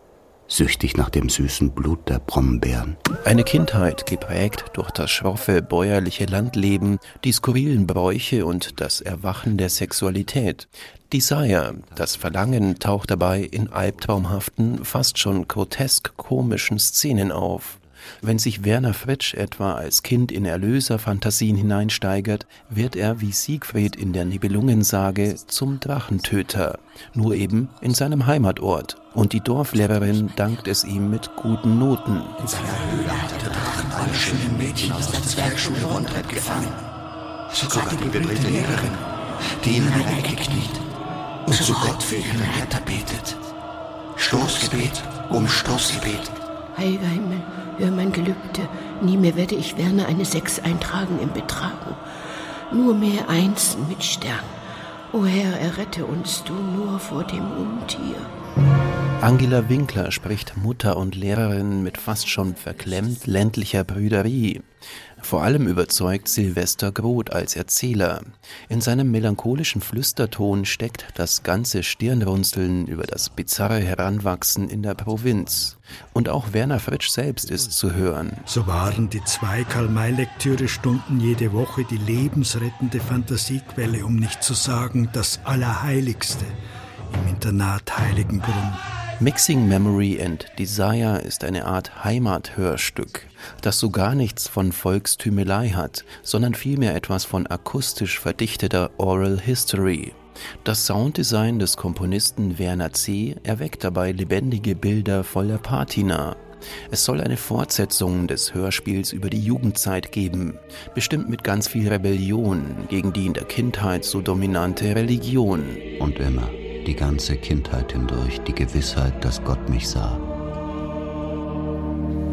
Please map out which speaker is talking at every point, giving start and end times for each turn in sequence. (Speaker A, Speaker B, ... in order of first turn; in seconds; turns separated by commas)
Speaker A: 0.5-3.0, Speaker B: 3.2-32.4, Speaker C: 32.4-36.8, Speaker D: 35.2-35.7, Speaker C: 37.5-39.0, Speaker C: 39.6-40.8, Speaker C: 41.5-43.4, Speaker C: 44.2-46.3, Speaker D: 46.8-52.0, Speaker D: 52.7-54.5, Speaker D: 55.1-58.3, Speaker B: 59.2-64.7, Speaker B: 65.2-78.5, Speaker E: 78.5-86.5, Speaker E: 87.1-88.8, Speaker B: 89.2-115.9, Speaker A: 116.0-120.2